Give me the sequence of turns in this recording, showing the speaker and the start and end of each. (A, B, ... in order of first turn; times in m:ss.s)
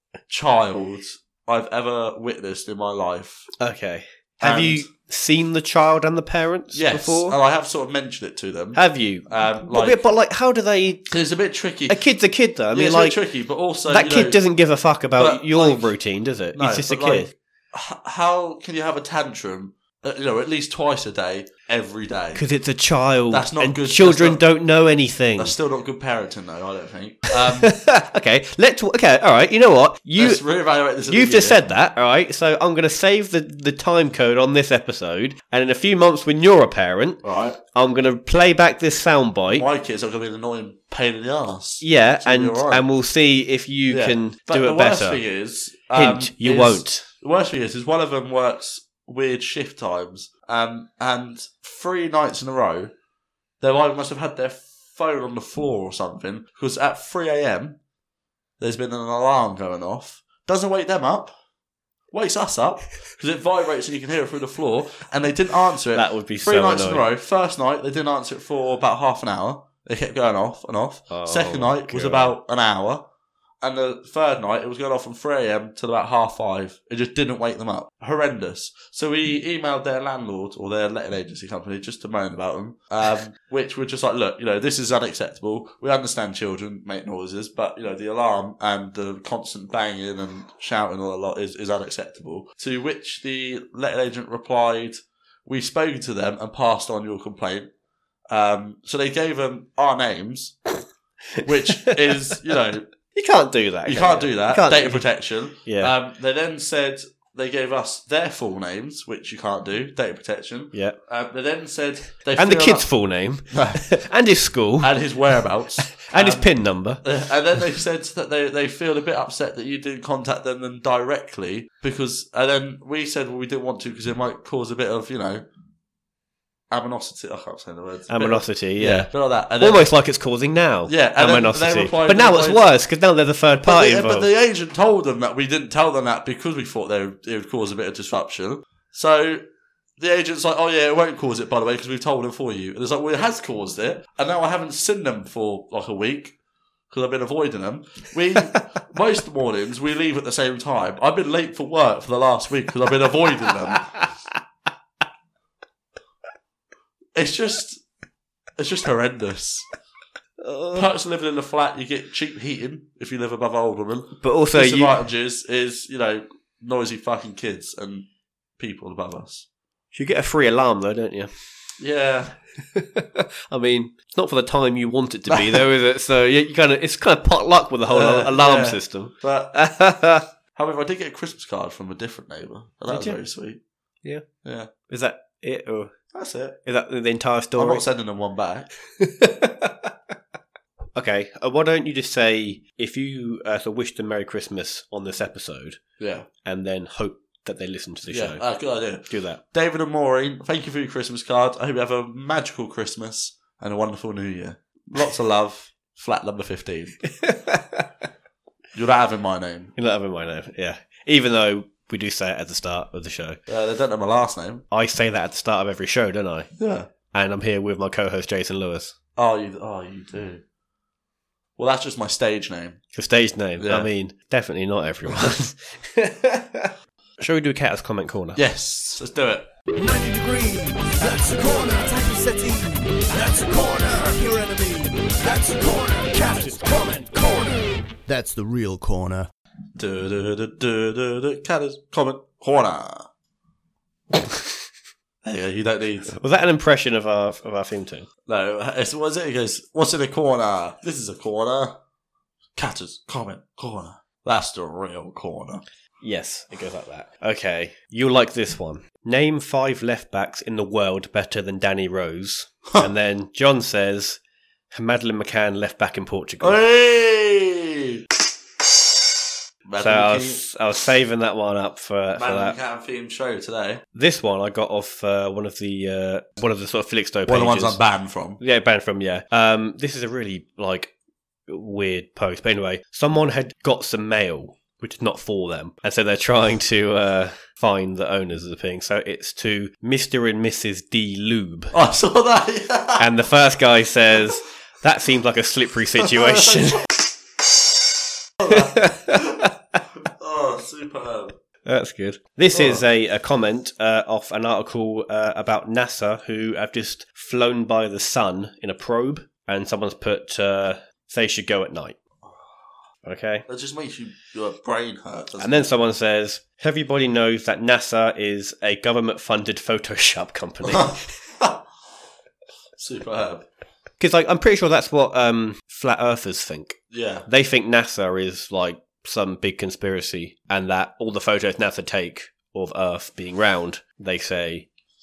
0:00.3-0:03.5 A
0:03.6-0:07.4 B
0:04.4-0:04.9 A
0:06.7-0:10.0 A
0:08.7-0:11.1 B
0:11.1-0:12.0 A
0:11.9-0:13.2 B
0:12.7-0:14.4 A
0:13.9-0:17.3 B
0:15.2-0:15.9 A
0:16.5-0:22.4 A
0:22.3-0:25.6 B
0:23.3-0:24.4 A
0:25.4-0:27.7 A
0:27.3-0:30.4 B
0:30.2-0:31.7 A
0:31.1-0:39.6 B
0:37.2-0:37.6 A
0:39.5-0:42.8 A
0:41.8-0:45.2 B
0:43.9-0:52.9 A
0:45.9-0:47.1 B
0:53.6-0:57.8 A
0:58.6-1:01.3 A
1:02.1-1:13.0 A
1:05.9-1:07.0 B
1:11.1-1:12.4 B
1:13.6-1:37.7 A
1:38.3-1:40.6 A
1:41.4-1:42.1 B
1:41.4-1:42.9 A
1:43.1-1:45.1 B
1:43.8-1:52.9 A
1:45.6-1:45.9 B
1:52.4-1:54.9 B
1:53.5-1:53.8 A
1:54.8-2:05.4 A
1:55.9-1:57.0 B
2:06.7-2:09.9 A
2:08.1-2:14.3 B
2:10.9-2:12.6 A
2:13.6-2:19.4 A
2:20.0-2:26.4 A
2:26.9-2:33.9 A
2:33.7-2:34.0 B
2:37.1-2:37.8 A
2:38.6-2:39.7 A
2:40.4-2:40.9 B
2:40.7-2:48.1 A
2:44.2-2:45.0 B
2:48.6-2:49.5 A
2:49.9-2:51.3 B
2:51.8-2:52.3 A
2:52.7-3:00.2 B
2:55.3-2:55.6 A
2:57.9-2:59.6 A
3:00.5-3:03.6 A
3:02.9-3:03.2 B
3:04.4-3:04.7 A
3:04.9-3:06.0 B
3:06.1-3:06.6 A
3:06.6-3:07.8 B
3:07.6-3:08.7 A
3:09.0-3:09.9 B
3:11.0-3:15.8 B
3:16.0-3:16.3 A
3:16.4-3:18.4 B
3:18.1-3:27.0 A
3:19.1-3:19.4 B
3:27.1-3:27.8 B
3:28.7-3:29.7 A
3:29.8-3:33.4 B
3:33.5-3:34.6 A
3:34.7-3:36.5 B
3:36.6-3:36.9 A
3:37.1-3:38.9 B
3:39.2-3:40.4 A
3:41.6-3:42.8 A
3:42.9-3:48.4 B
3:43.6-3:43.9 A
3:48.3-3:49.5 A
3:49.7-3:59.3 C
3:59.8-4:03.1 A
4:05.2-4:06.1 A
4:06.1-4:08.1 B
4:08.2-4:11.8 A
4:12.6-4:15.6 A
4:16.0-4:24.2 B
4:24.7-4:26.6 B
4:26.4-4:28.0 A
4:29.7-4:30.4 A
4:29.8-4:32.6 B
4:32.2-4:33.8 A
4:33.9-4:37.8 B
4:37.3-4:38.4 A
4:38.4-4:40.9 B
4:41.5-4:51.7 B
4:51.7-4:53.1 A
4:53.0-4:57.0 B
4:58.4-4:59.5 A
4:58.4-4:59.8 B
5:00.0-5:01.3 A
5:01.6-5:12.0 B
5:02.5-5:02.8 A
5:13.0-5:13.4 B
5:13.5-5:15.7 A
5:15.4-5:21.1 B
5:20.6-5:21.6 A
5:22.8-5:23.4 A
5:24.0-5:34.7 B
5:26.9-5:27.3 A